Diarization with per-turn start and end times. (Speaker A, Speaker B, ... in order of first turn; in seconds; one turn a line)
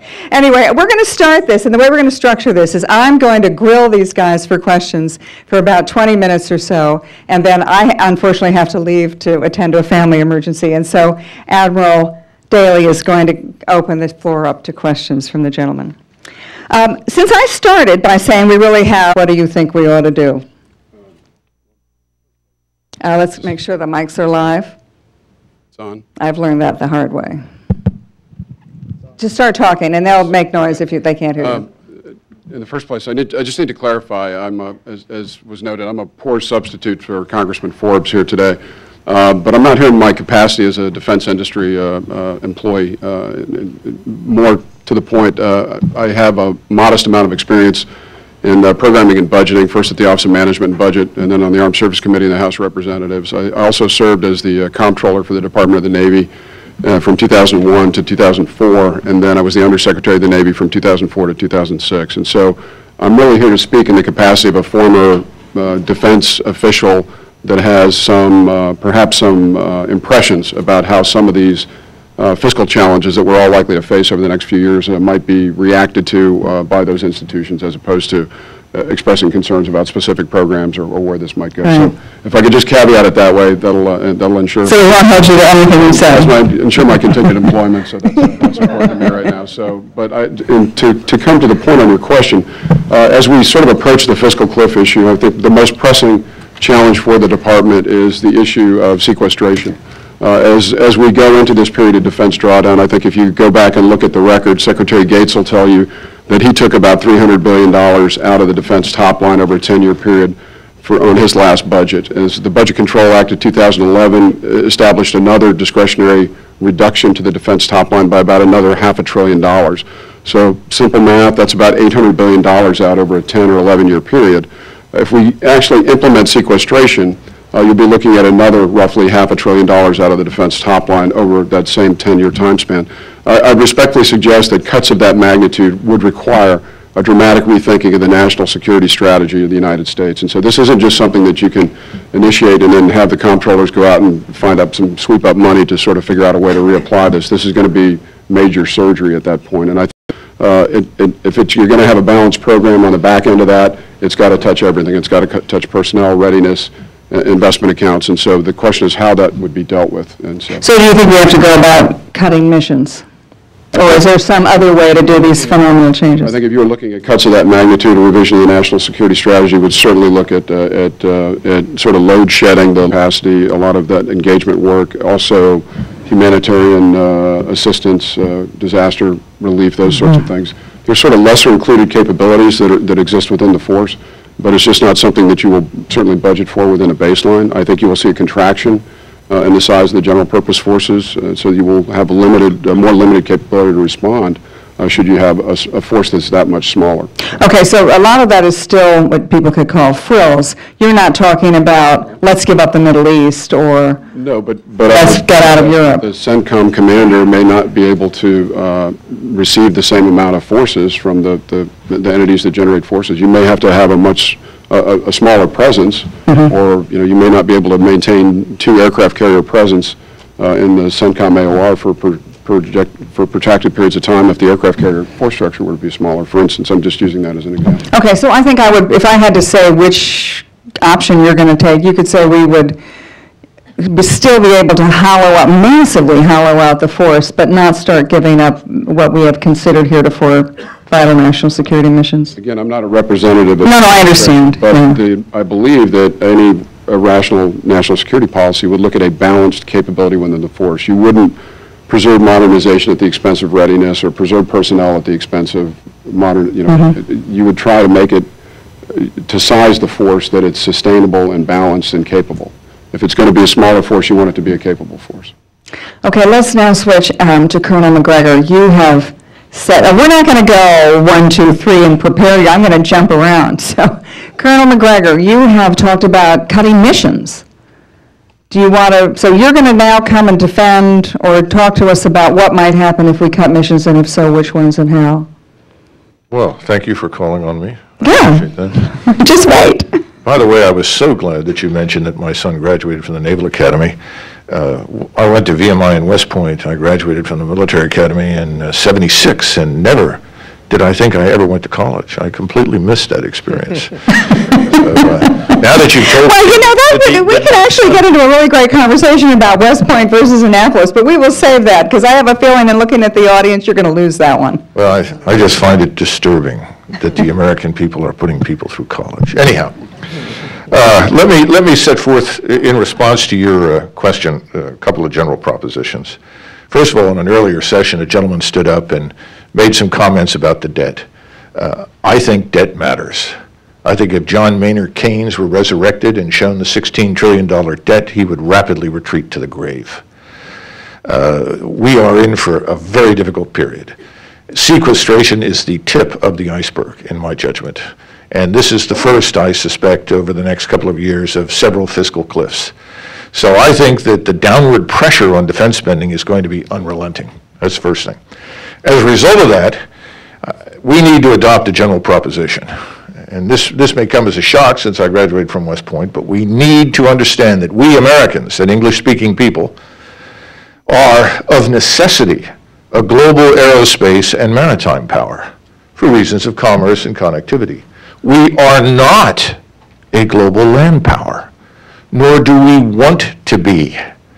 Speaker A: 0.3-15.9
Speaker A: 16.7-20.4
Speaker A: 23.0-24.7
Speaker B: 25.7-26.0
Speaker A: 26.2-27.4
Speaker A: 29.2-31.7
Speaker B: 31.4-47.9
Speaker B: 48.4-56.3
Speaker B: 56.8-71.7
Speaker B: 72.2-84.8
Speaker A: 81.6-81.9
Speaker A: 84.7-86.3
Speaker B: 85.9-160.6
Speaker A: 160.6-163.0
Speaker A: 163.7-166.3
Speaker B: 166.2-197.1
Speaker A: 197.4-204.0
Speaker B: 204.1-227.8
Speaker A: 204.9-206.0
Speaker A: 227.9-232.8
Speaker A: 233.8-242.3
Speaker B: 242.3-251.4
Speaker A: 243.6-245.0
Speaker B: 251.9-258.3
Speaker A: 256.7-256.9
Speaker B: 258.9-265.3
Speaker A: 266.0-277.4
Speaker A: 278.5-285.3
Speaker C: 286.3-288.9
Speaker A: 288.0-290.0
Speaker C: 290.2-293.9
Speaker C: 294.5-306.6
Speaker A: 306.2-314.6
Speaker C: 314.7-319.8
Speaker C: 320.7-326.2
Speaker C: 326.7-340.0
Speaker C: 341.0-343.9
Speaker C: 344.5-352.7
Speaker C: 353.3-358.2
Speaker C: 358.8-359.8
Speaker C: 360.4-362.7
Speaker C: 363.2-369.8
Speaker C: 370.9-379.6
Speaker C: 380.1-381.5
Speaker C: 382.1-384.0